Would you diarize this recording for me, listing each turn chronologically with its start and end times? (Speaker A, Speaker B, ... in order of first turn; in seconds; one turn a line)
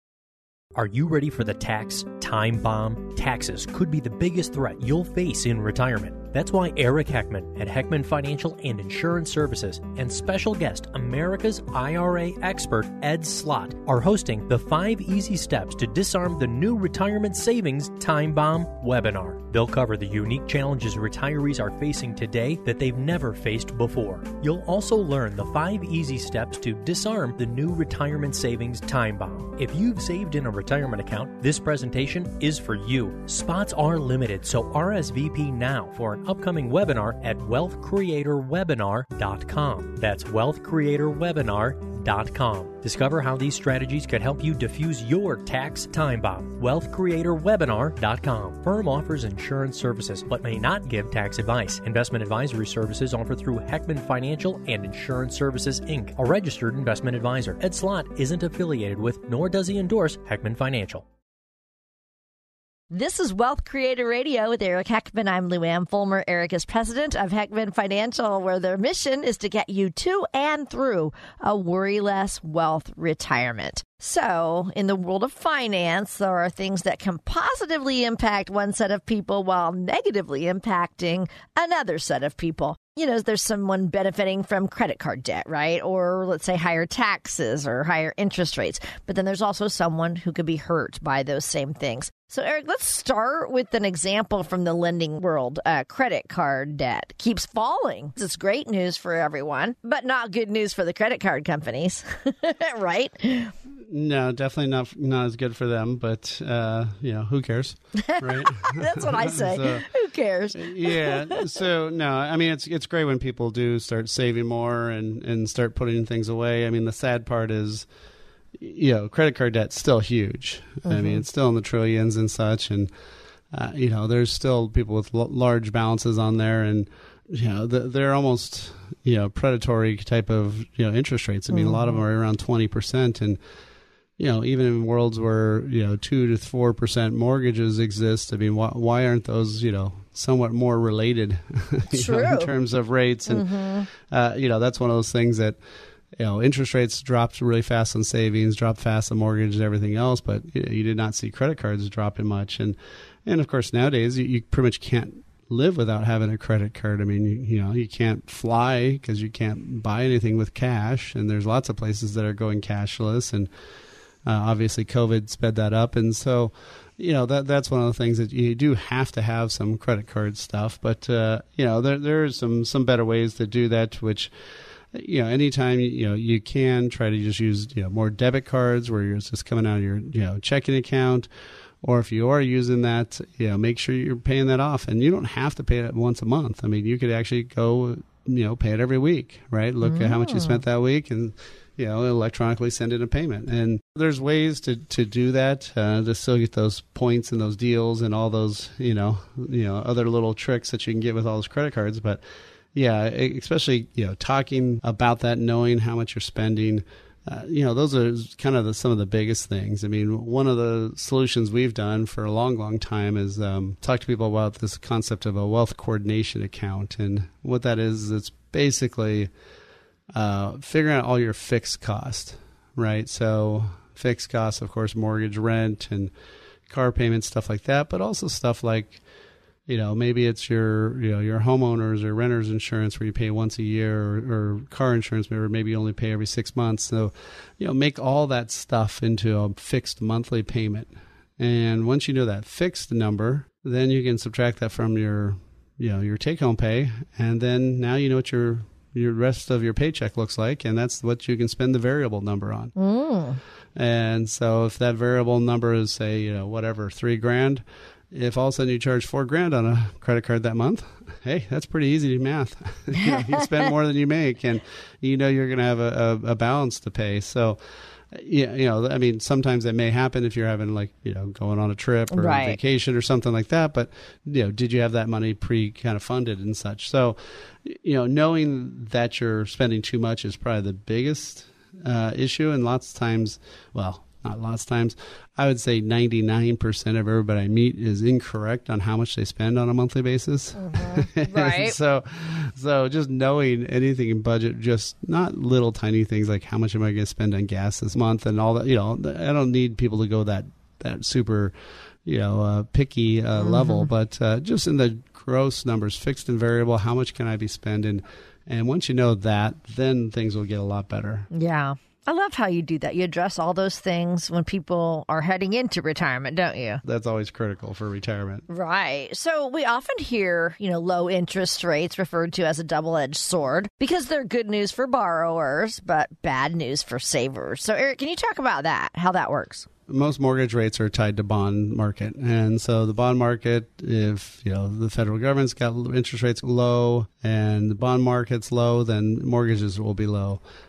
Speaker A: 0.7-61.0
Speaker B: 62.9-103.5
Speaker C: 103.9-109.9
Speaker B: 108.0-111.4
Speaker C: 110.5-117.9
Speaker C: 118.6-122.9
Speaker B: 120.8-121.2
Speaker C: 123.5-133.4
Speaker B: 131.5-132.0
Speaker C: 134.2-145.6
Speaker B: 141.9-142.5
Speaker B: 143.3-143.9
Speaker C: 146.2-163.5
Speaker C: 164.2-174.3
Speaker C: 174.9-181.3
Speaker C: 181.8-202.2
Speaker B: 189.8-190.6
Speaker C: 202.7-219.3
Speaker C: 220.1-226.1
Speaker C: 226.7-229.0
Speaker C: 229.7-252.7
Speaker B: 252.8-253.4
Speaker C: 253.8-267.6
Speaker B: 262.9-263.4
Speaker C: 268.1-301.5
Speaker B: 272.1-272.6
Speaker B: 290.6-291.7
Speaker C: 302.1-311.3
Speaker B: 303.4-303.9
Speaker B: 311.3-316.8
Speaker C: 316.8-318.4
Speaker B: 318.5-329.6
Speaker C: 329.9-340.4